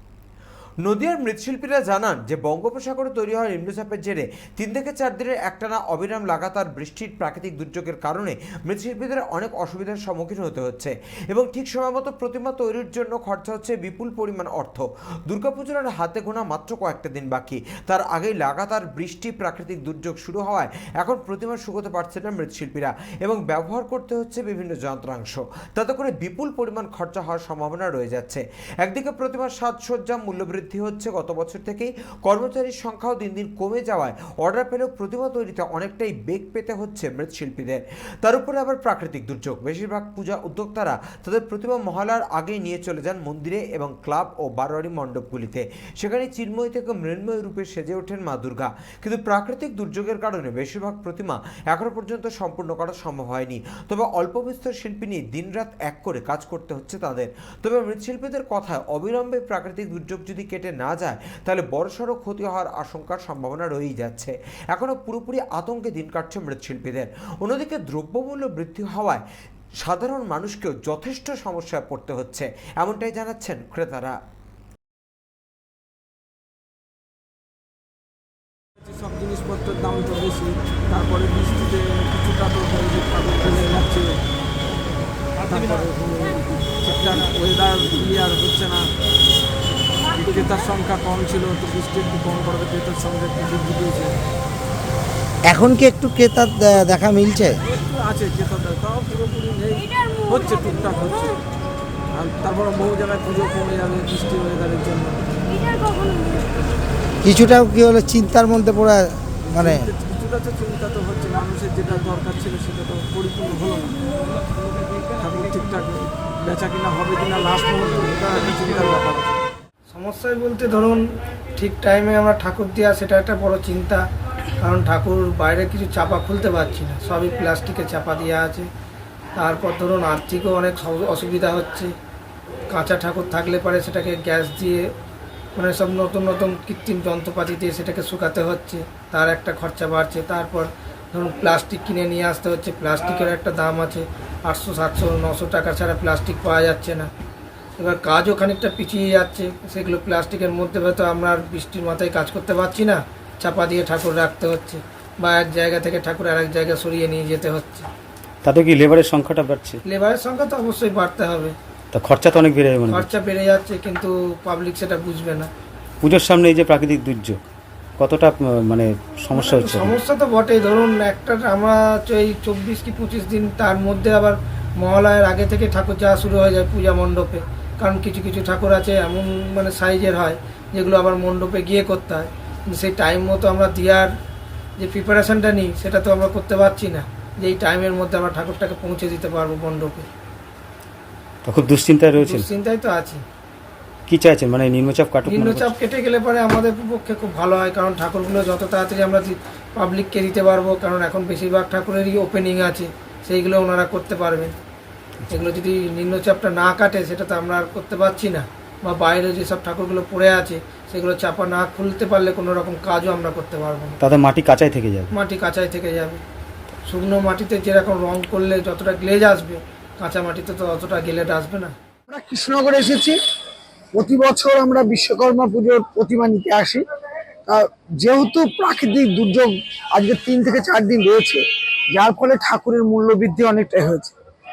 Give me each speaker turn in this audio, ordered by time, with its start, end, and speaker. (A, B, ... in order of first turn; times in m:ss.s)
0:00.8-1:09.2 A
1:09.8-1:14.2 A
1:18.8-1:24.2 B
1:25.5-1:28.9 B
1:30.1-1:34.1 B
1:35.5-1:37.6 C
1:37.7-1:41.4 B
1:42.1-1:45.3 B
1:47.2-1:49.9 C
1:49.5-1:54.0 B
1:55.2-1:59.4 B
1:59.9-2:01.0 D
2:01.6-2:04.1 D
2:04.6-2:08.7 D
2:09.4-2:11.9 D
2:12.7-2:14.9 D
2:15.6-2:27.1 D
2:27.8-2:37.9 D
2:38.4-2:39.8 E
2:39.8-2:41.6 D
2:41.9-2:43.1 E
2:42.9-2:45.5 D
2:46.0-2:47.4 E
2:48.0-2:50.0 E
2:49.3-3:04.1 D
3:04.8-3:10.1 D
3:11.4-3:12.5 E
3:12.2-3:13.2 D
3:14.1-3:15.7 E
3:15.3-3:24.6 D
3:25.3-3:34.0 D
3:34.0-3:35.1 E
3:35.1-3:36.2 D
3:36.8-3:41.8 D
3:42.1-3:43.2 F
3:44.0-3:46.8 F
3:47.5-3:51.4 F
3:51.9-3:54.2 F